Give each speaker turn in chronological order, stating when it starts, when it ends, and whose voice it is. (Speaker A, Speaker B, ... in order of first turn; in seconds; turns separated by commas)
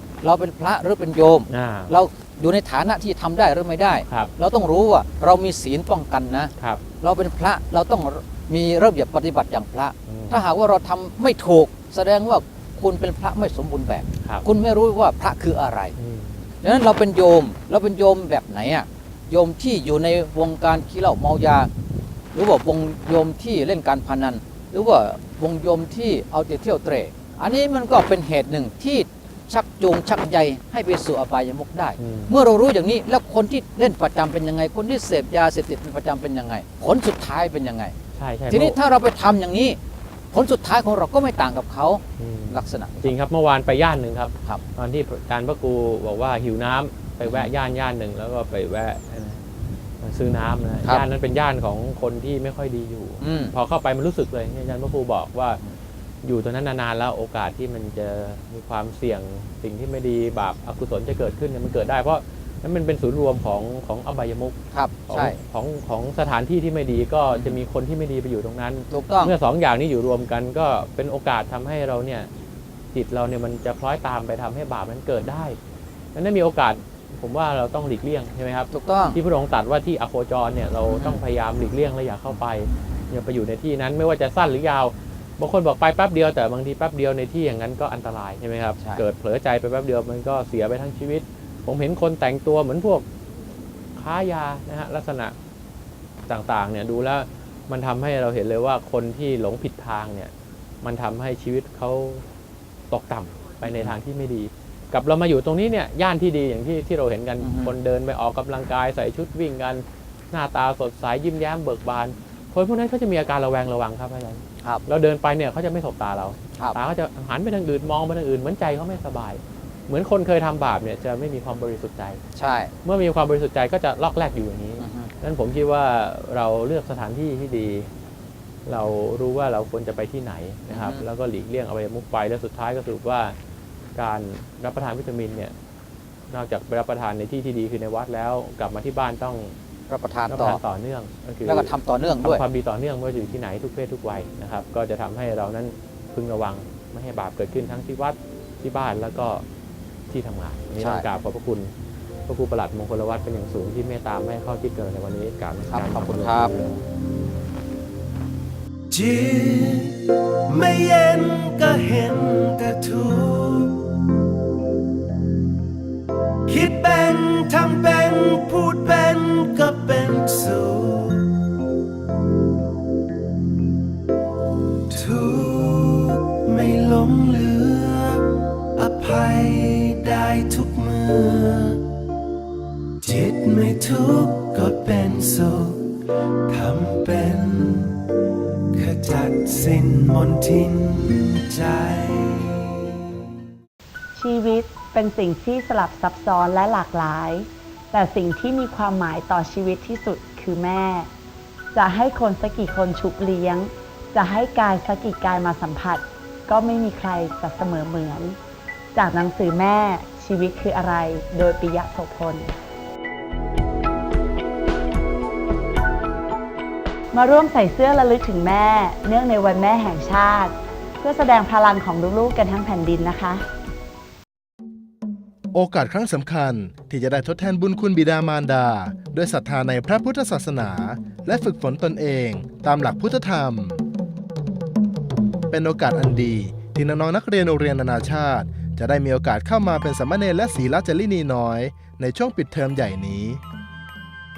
Speaker A: 0.2-15.9, Speaker B: 1.5-1.9, Speaker B: 10.1-10.4, Speaker B: 16.0-16.4, Speaker A: 16.6-21.7, Speaker A: 22.3-38.0, Speaker B: 32.0-32.3, Speaker B: 38.2-38.8, Speaker A: 38.5-39.8, Speaker A: 40.3-43.1, Speaker B: 42.2-49.4, Speaker A: 47.2-47.5, Speaker B: 50.0-55.6, Speaker A: 53.2-53.5, Speaker B: 56.2-64.6, Speaker A: 64.7-65.4, Speaker B: 65.1-72.3, Speaker A: 68.9-69.3, Speaker B: 72.9-75.6, Speaker B: 76.1-93.1, Speaker A: 78.7-79.2, Speaker A: 80.9-81.2, Speaker B: 94.0-95.3, Speaker B: 96.3-102.2, Speaker B: 102.9-122.2, Speaker A: 103.6-104.0, Speaker A: 107.4-107.7, Speaker A: 122.4-122.7, Speaker B: 122.8-127.9, Speaker A: 124.8-125.1, Speaker B: 128.7-133.4, Speaker A: 130.7-131.0, Speaker B: 134.0-135.5, Speaker B: 136.3-139.6, Speaker A: 139.9-140.6, Speaker B: 140.3-149.4, Speaker A: 141.5-142.4, Speaker B: 150.1-151.7, Speaker A: 150.8-151.1, Speaker B: 152.3-156.8, Speaker A: 155.7-156.5, Speaker C: 158.9-163.9, Speaker C: 166.5-171.3, Speaker C: 174.9-181.9, Speaker C: 183.0-185.9, Speaker C: 186.5-188.0, Speaker C: 188.7-192.6, Speaker D: 194.2-201.1, Speaker D: 201.7-208.4, Speaker D: 208.9-212.5, Speaker D: 217.1-223.4, Speaker E: 225.5-233.8, Speaker E: 235.5-243.4